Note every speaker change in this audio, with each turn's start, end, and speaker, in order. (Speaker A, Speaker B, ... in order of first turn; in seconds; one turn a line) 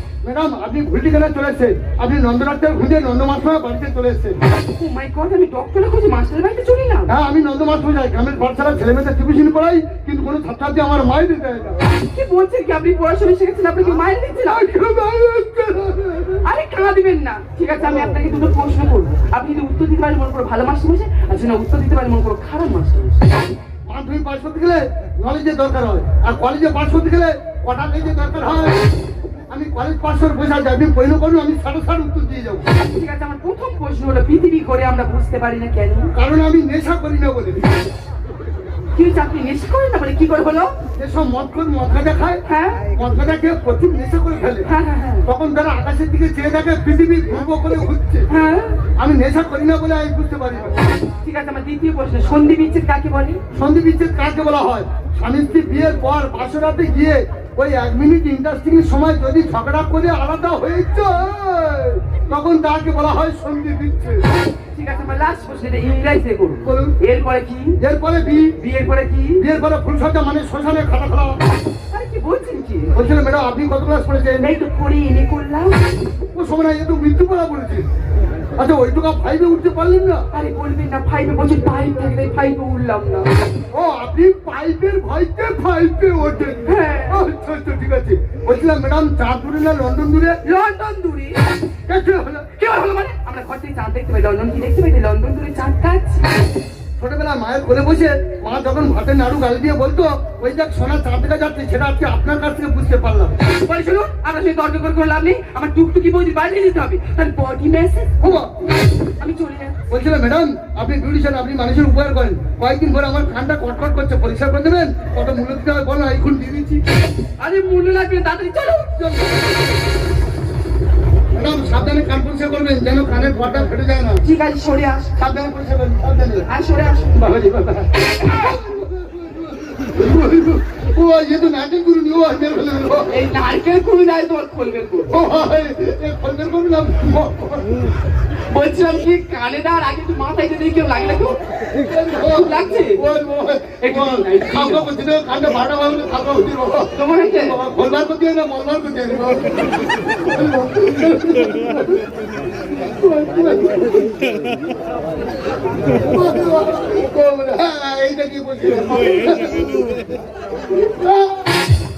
Speaker A: 0.2-4.4
Speaker B: 4.7-7.1
Speaker A: 7.1-11.8
Speaker B: 11.8-14.7
Speaker A: 14.4-16.4
Speaker B: 16.4-23.3
Speaker A: 23.9-28.8
Speaker A: 29.5-32.6
Speaker B: 32.8-36.1
Speaker A: 36.1-37.6
Speaker B: 39.0-40.7
Speaker A: 41.0-42.4
Speaker B: 42.5-42.8
Speaker A: 42.9-44.7
Speaker B: 44.7-45.2
Speaker A: 45.2-48.3
Speaker B: 48.3-48.8
Speaker A: 49.0-50.8
Speaker B: 51.2-53.4
Speaker A: 53.5-64.2
Speaker B: 64.7-67.8
Speaker A: 66.7-66.9
Speaker A: 67.8-68.5
Speaker B: 68.6-69.4
Speaker A: 69.4-71.4
Speaker B: 71.9-73.0
Speaker A: 72.9-74.5
Speaker B: 74.4-75.8
Speaker A: 76.3-77.8
Speaker A: 78.5-80.2
Speaker B: 80.3-83.4
Speaker A: 83.7-90.4
Speaker B: 86.6-87.2
Speaker B: 90.4-91.4
Speaker A: 91.9-92.5
Speaker B: 92.5-96.4
Speaker A: 97.0-103.3
Speaker B: 103.6-108.4
Speaker A: 108.2-108.5
Speaker B: 109.2-109.8
Speaker A: 109.9-116.8
Speaker B: 117.4-119.0
Speaker A: 121.3-124.2
Speaker B: 124.2-125.2
Speaker A: 125.2-126.5
Speaker B: 126.5-127.2
Speaker A: 127.1-133.1
Speaker B: 133.1-135.1
Speaker A: 135.1-137.8
Speaker B: 138.3-141.4
Speaker A: 141.7-149.6
Speaker B: 142.1-143.0
Speaker B: 143.8-144.9
Speaker B: 146.9-147.6
Speaker A: 150.3-152.0
Speaker A: 153.0-154.0
Speaker A: 155.9-159.8
Speaker A: 160.7-161.2